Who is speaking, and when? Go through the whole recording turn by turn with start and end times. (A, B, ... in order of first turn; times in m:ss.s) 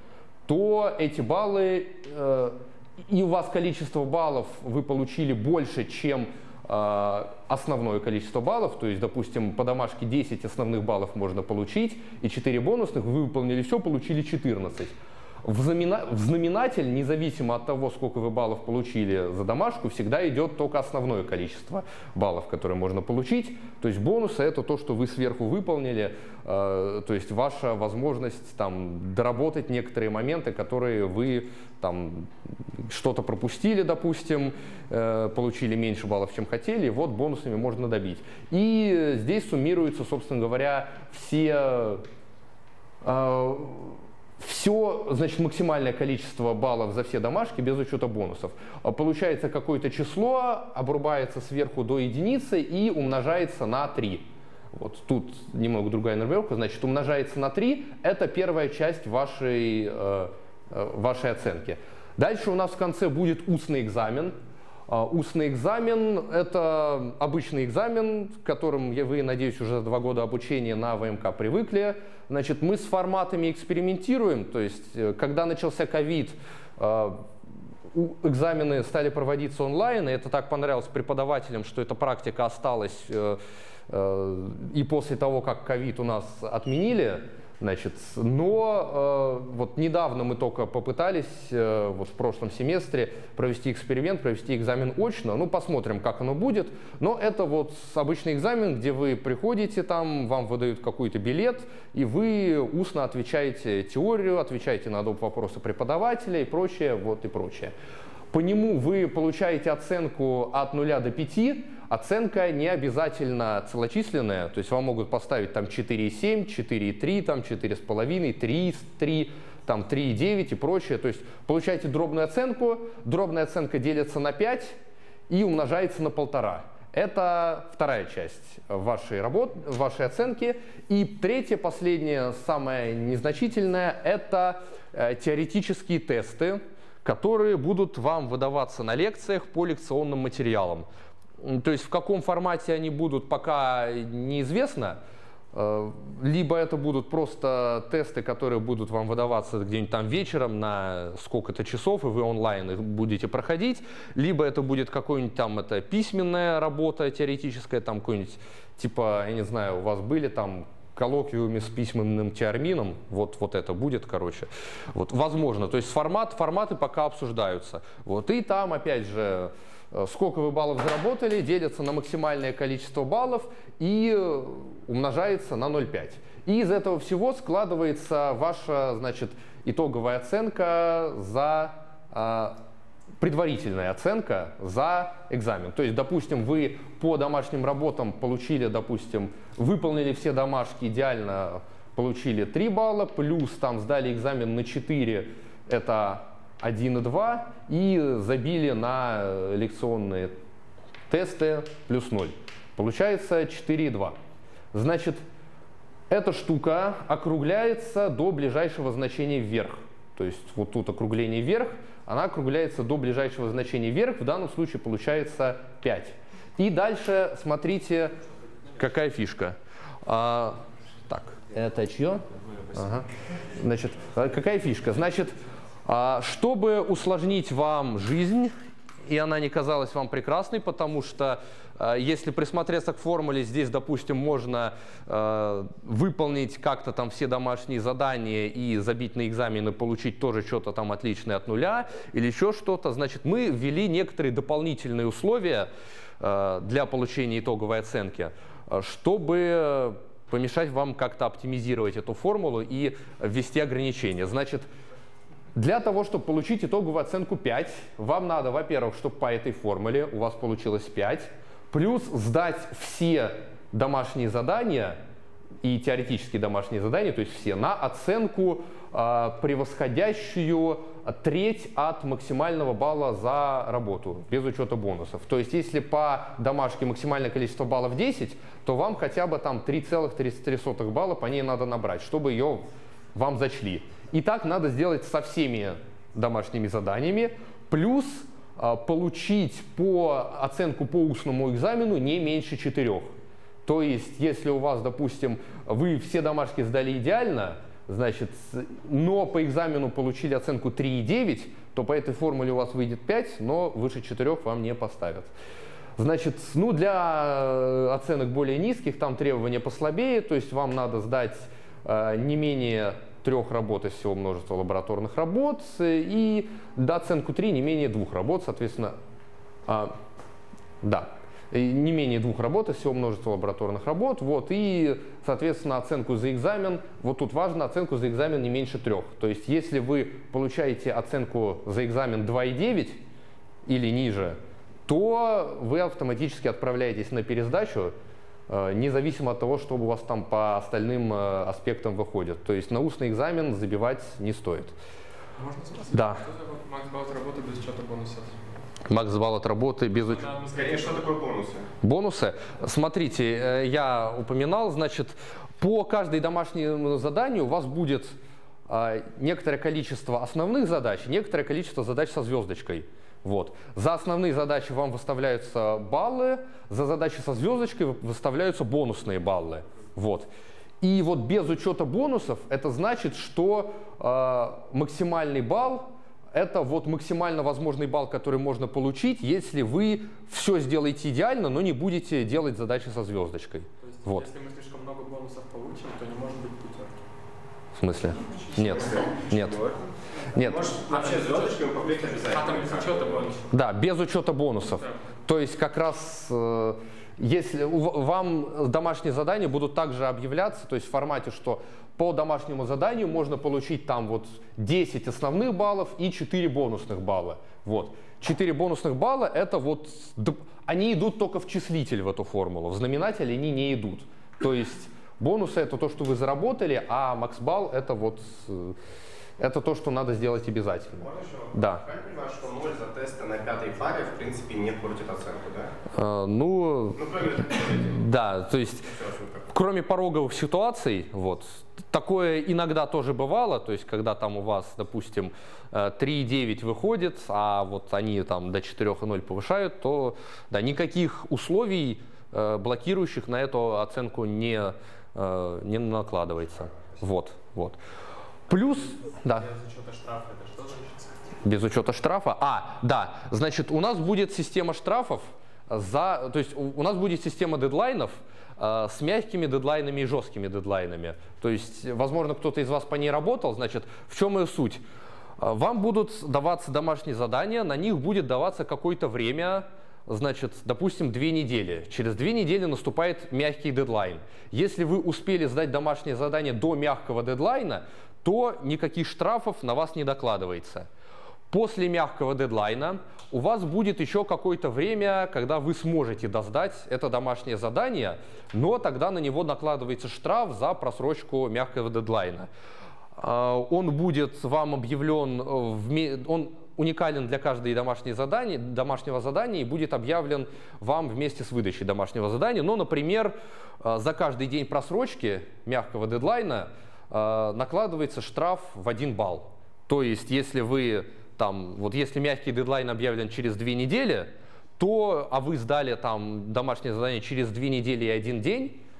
0:00.5-0:42.0 A
0:43.0-1:04.4 A
1:04.9-1:17.3 A
1:17.9-1:47.7 A
1:48.3-2:04.8 A
2:05.3-2:20.9 A
2:21.4-2:25.0 A
2:25.5-3:02.6 A
3:03.2-3:20.3 A
3:21.1-3:24.2 A
3:24.7-3:25.2 A
3:26.1-3:38.1 A
3:38.8-3:45.3 A
3:45.8-3:48.5 A
3:49.0-4:14.7 A
4:15.6-4:25.0 A
4:25.6-4:53.1 A
4:53.6-5:05.3 A
5:06.0-5:18.9 A
5:19.6-5:19.9 A
5:20.8-5:33.0 A
5:33.6-5:37.9 A
5:38.5-5:44.8 A
5:45.4-5:48.4 B
5:45.9-5:46.2 A
5:48.9-5:50.3 A
5:50.1-5:51.1 B
5:50.5-5:51.7 C
5:51.8-5:58.2 A
5:58.7-6:10.3 A
6:10.8-6:24.3 A
6:23.8-6:27.0 B
6:27.8-6:29.6 A
6:28.6-6:29.8 C
6:30.3-6:30.7 A
6:30.4-6:33.3 C
6:30.9-6:31.5 B
6:32.2-6:33.4 B
6:33.5-6:58.8 A
6:59.4-7:01.8 A
7:01.0-7:05.7 C
7:05.9-7:07.0 A
7:07.0-7:07.9 C
7:07.8-7:08.9 A
7:09.0-7:09.3 C
7:09.5-7:27.8 A
7:28.5-7:29.5 A
7:31.4-7:44.8 A
7:45.4-8:00.9 A
8:01.5-8:12.5 A
8:13.2-8:38.8 A